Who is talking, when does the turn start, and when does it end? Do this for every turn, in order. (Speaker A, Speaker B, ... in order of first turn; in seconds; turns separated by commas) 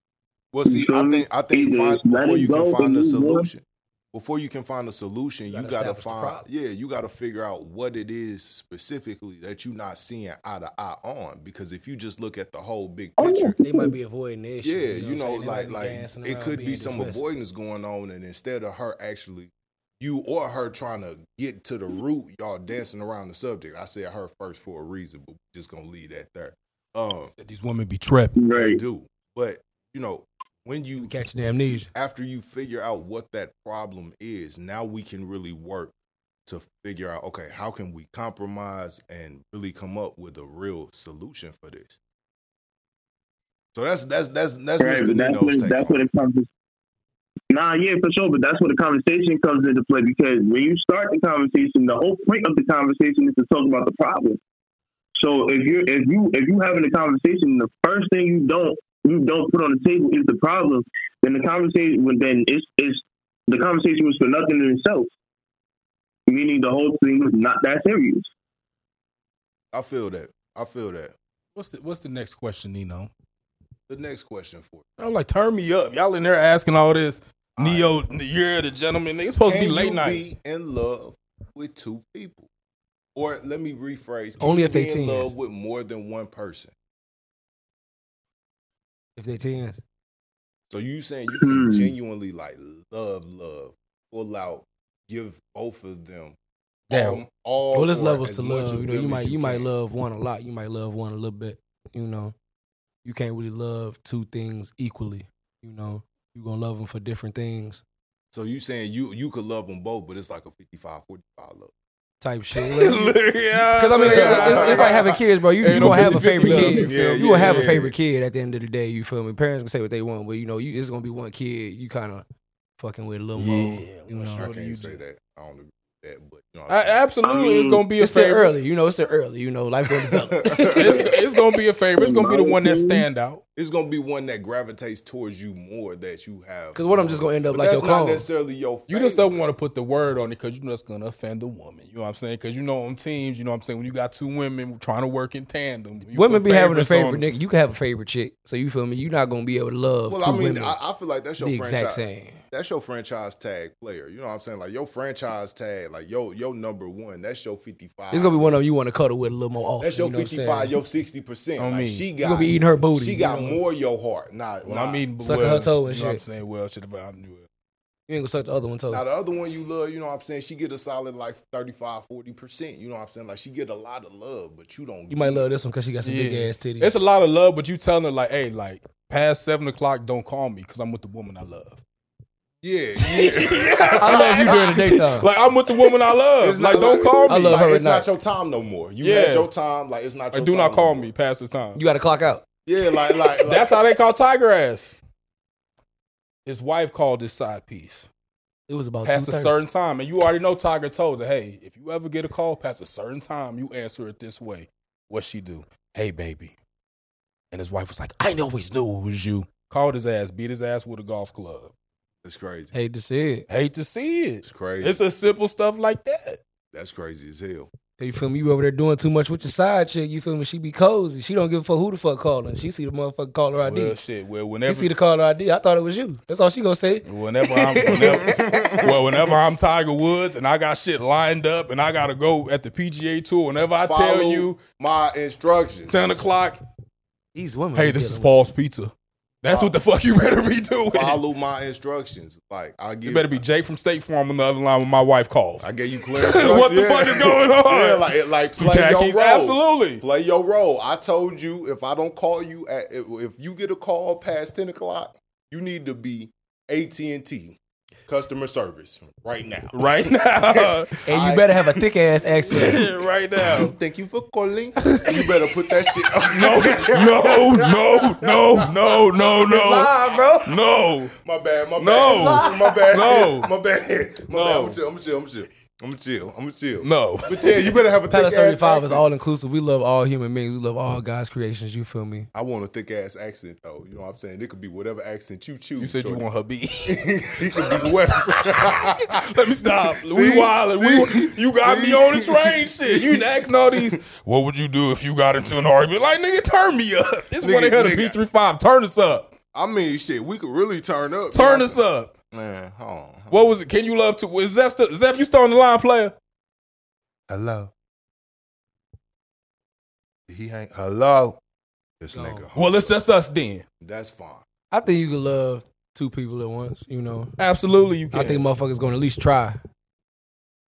Speaker A: 0.5-13.6, Speaker B: 0.6-3.5, Speaker C: 5.5-6.5, Speaker B: 13.2-13.9, Speaker C: 13.6-17.2, Speaker A: 14.6-27.3, Speaker D: 27.4-28.4, Speaker B: 28.4-28.8, Speaker A: 28.5-31.1, Speaker C: 31.0-31.9, Speaker A: 31.9-35.9, Speaker A: 36.5-42.0, Speaker A: 43.7-46.0, Speaker B: 44.8-46.5, Speaker B: 47.5-54.4, Speaker B: 55.2-65.1, Speaker B: 66.3-68.3, Speaker A: 69.7-71.1, Speaker D: 71.5-73.1, Speaker A: 73.9-74.9, Speaker D: 75.0-80.2, Speaker A: 77.6-77.9, Speaker A: 79.4-82.5, Speaker A: 83.1-86.7, Speaker C: 84.4-85.3, Speaker C: 89.2-89.8, Speaker A: 90.7-96.4, Speaker B: 91.3-91.9, Speaker A: 96.9-99.7, Speaker D: 96.9-97.2, Speaker C: 97.7-102.3, Speaker C: 103.0-107.8, Speaker A: 108.3-111.7, Speaker C: 112.2-113.2, Speaker D: 112.5-115.1, Speaker C: 113.7-122.2, Speaker A: 114.0-115.2, Speaker D: 115.6-117.8, Speaker A: 115.7-117.9, Speaker C: 122.8-124.5, Speaker D: 123.4-125.0, Speaker A: 124.1-127.0, Speaker D: 126.7-128.5, Speaker B: 127.2-127.8, Speaker C: 128.0-131.1, Speaker A: 130.1-131.1, Speaker D: 130.8-133.4, Speaker B: 131.9-133.1, Speaker A: 133.6-139.4, Speaker C: 136.7-138.2, Speaker D: 138.9-147.2, Speaker C: 146.1-150.8, Speaker A: 150.1-158.5, Speaker C: 151.4-152.4, Speaker C: 158.1-160.7, Speaker A: 159.8-165.0, Speaker D: 161.6-162.1, Speaker C: 162.2-163.6, Speaker D: 164.7-167.5, Speaker C: 165.2-166.2, Speaker C: 168.1-169.0, Speaker A: 168.9-175.4, Speaker C: 175.1-176.9, Speaker D: 176.0-181.8, Speaker A: 182.6-184.8, Speaker D: 183.0-187.6, Speaker C: 184.0-185.3, Speaker A: 186.4-191.1, Speaker C: 187.3-188.1, Speaker D: 189.0-189.5, Speaker D: 190.3-191.8, Speaker C: 191.7-192.4, Speaker A: 192.7-193.8, Speaker D: 193.4-195.0, Speaker D: 196.4-198.1, Speaker C: 198.7-199.5, Speaker D: 199.0-206.6, Speaker D: 207.5-211.7, Speaker A: 212.2-212.7, Speaker C: 212.7-213.5, Speaker D: 213.5-216.4, Speaker A: 214.4-215.0, Speaker A: 216.7-217.7, Speaker C: 218.0-224.0, Speaker D: 223.6-224.9, Speaker C: 224.6-228.4, Speaker D: 227.1-234.6, Speaker A: 227.9-229.1, Speaker A: 233.8-236.0, Speaker D: 235.9-236.6, Speaker C: 237.3-238.3, Speaker D: 237.7-241.2, Speaker A: 239.5-239.7, Speaker A: 240.9-243.4, Speaker D: 243.0-250.0, Speaker A: 245.6-261.6, Speaker D: 259.7-261.0, Speaker C: 261.1-262.8, Speaker D: 262.5-263.7, Speaker A: 263.4-269.5, Speaker C: 264.9-265.1, Speaker D: 266.2-271.1, Speaker C: 269.5-270.5, Speaker A: 271.2-279.1, Speaker D: 271.8-273.5, Speaker C: 272.0-272.8, Speaker D: 274.3-274.8, Speaker D: 276.8-277.8, Speaker C: 278.1-282.3, Speaker A: 282.3-286.2, Speaker D: 285.8-299.3, Speaker A: 286.8-293.9, Speaker A: 297.4-298.2, Speaker A: 299.5-303.5, Speaker D: 301.3-302.1, Speaker D: 303.3-306.1, Speaker A: 307.3-307.7, Speaker A: 310.3-311.4, Speaker A: 312.0-313.0, Speaker C: 312.1-312.4, Speaker D: 312.5-313.6, Speaker A: 313.8-314.4, Speaker C: 314.7-317.3, Speaker D: 317.4-318.4, Speaker C: 318.1-319.6